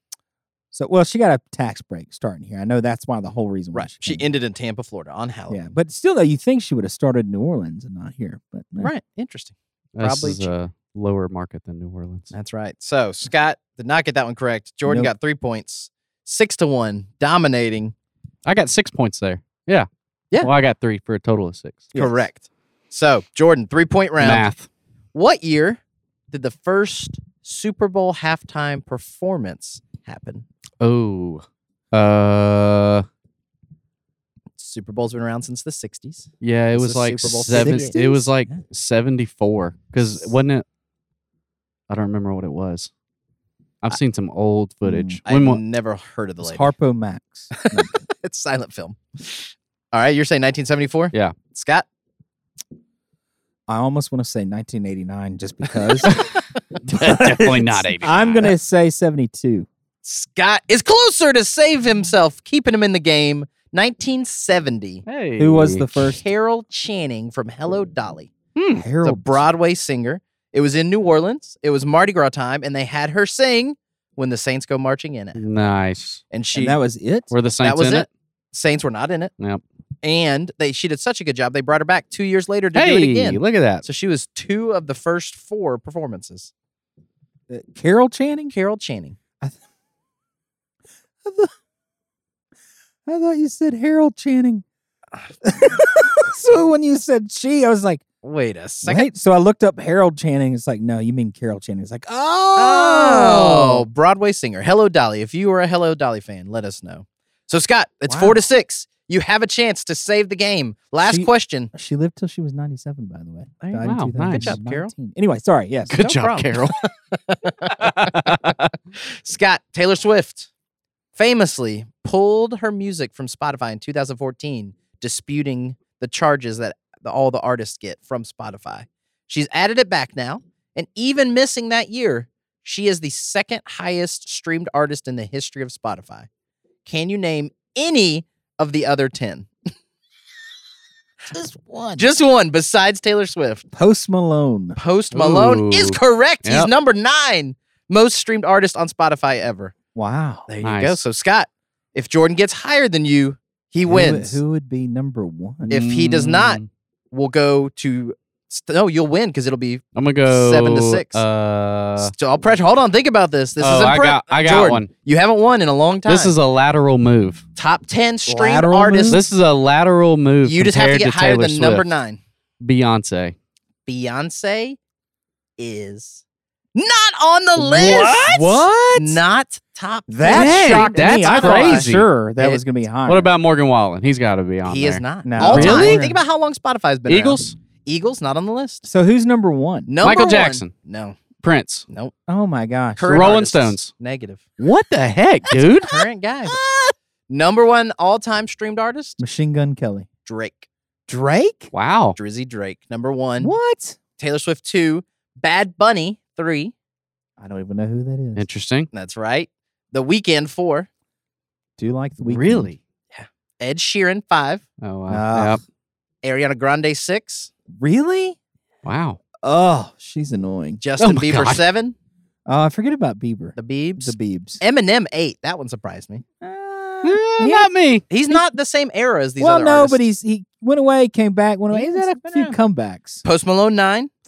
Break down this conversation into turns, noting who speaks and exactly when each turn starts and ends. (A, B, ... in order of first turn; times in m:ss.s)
0:00.7-0:04.2 A
0:03.7-0:05.7 B
0:05.5-0:08.9 A
0:08.8-0:10.5 B
0:10.0-0:12.3 C
0:12.3-0:17.9 B
0:14.9-0:15.1 A
0:18.4-0:19.9 C
0:20.4-0:21.9 C
0:21.9-0:22.3 A
0:21.9-0:24.5 B
0:24.2-0:24.7 C
0:25.1-0:25.8 B
0:26.3-0:30.4 B
0:30.8-0:33.1 C
0:34.6-0:38.0 B
0:36.4-0:40.6 C
0:37.5-0:38.4 A
0:41.9-0:42.9 C
0:43.8-0:45.6 C
0:44.8-0:45.2 A
0:45.3-0:46.7 B
0:46.4-0:48.0 A
0:47.5-0:51.9 B
0:53.7-0:56.2 A
0:56.9-0:58.5 C
0:56.9-0:59.7 A
1:00.0-1:05.0 B
1:05.1-1:05.9 C
1:05.4-1:06.2 A
1:06.1-1:08.3 B
1:08.6-1:08.8 C
1:08.8-1:09.4 A
1:09.0-1:15.4 B
1:15.4-1:16.2 C
1:16.3-1:16.8 B
1:16.6-1:17.3 A
1:17.3-1:18.1 C
1:17.6-1:19.3 B
1:20.0-1:26.5 B
1:22.8-1:23.8 C
1:27.5-1:28.5 A
1:28.5-1:29.2 B
1:31.2-1:31.5 A
1:33.1-1:34.6 A
1:35.4-1:38.0 A
1:38.2-1:39.1 B
1:38.8-1:43.9 A
1:42.6-1:51.7 B
1:48.1-1:48.4 A
1:51.0-1:56.0 A
1:53.6-1:54.9 B
1:53.8-1:54.6 C
1:55.9-1:56.8 C
1:55.9-2:00.5 B
1:57.8-1:58.7 C
2:01.2-2:16.3 B
2:16.8-2:19.5 B
2:21.3-2:22.0 A
2:22.0-2:23.7 B
2:23.7-2:24.8 A
2:24.8-2:29.7 B
2:25.1-2:26.7 C
2:30.0-2:30.5 A
2:30.5-2:34.4 B
2:30.6-2:31.0 C
2:33.8-2:35.8 A
2:35.7-2:36.7 C
2:35.7-2:36.6 B
2:37.1-2:41.2 B
2:40.0-2:42.1 C
2:42.0-2:46.4 B
2:43.6-2:44.9 C
2:46.1-2:47.4 C
2:47.6-2:49.2 B
2:48.3-2:49.2 A
2:49.1-2:51.9 C
2:50.4-2:52.2 B
2:52.6-2:53.4 C
2:53.9-2:54.8 B
2:55.6-2:56.2 B
2:56.8-3:02.6 B
2:57.6-2:59.2 A
3:00.1-3:03.3 A
3:00.3-3:02.1 C
3:03.1-3:06.1 C
3:04.6-3:08.9 B
3:05.2-3:06.2 A
3:07.1-3:07.6 C
3:08.8-3:09.9 A
3:09.9-3:11.2 B
3:10.0-3:10.7 C
3:11.4-3:11.9 C
3:11.9-3:12.1 B
3:12.3-3:13.3 A
3:13.0-3:14.4 B
3:13.0-3:13.9 C
3:14.6-3:16.0 C
3:15.5-3:16.6 B
3:17.3-3:19.2 B
3:19.2-3:20.1 A
3:20.2-3:20.7 B
3:21.1-3:21.7 A
3:21.7-3:22.2 C
3:22.2-3:23.5 B
3:23.4-3:24.0 A
3:24.2-3:26.7 B
3:27.4-3:28.5 A
3:28.4-3:28.9 C
3:28.9-3:30.9 B
3:31.8-3:32.7 A
3:32.2-3:32.8 C
3:33.1-3:34.6 B
3:34.8-3:35.6 C
3:35.1-3:35.6 A
3:36.2-3:37.5 B
3:37.8-3:38.4 A
3:38.8-3:39.2 C
3:39.4-3:40.8 A
3:40.8-3:42.0 B
3:41.0-3:41.6 C
3:42.5-3:44.6 A
3:43.6-3:46.2 B
3:46.4-3:47.7 A
3:47.0-3:48.0 C
3:48.1-3:50.0 B
3:49.4-3:53.2 A
3:51.7-3:52.6 B
3:53.2-3:54.1 B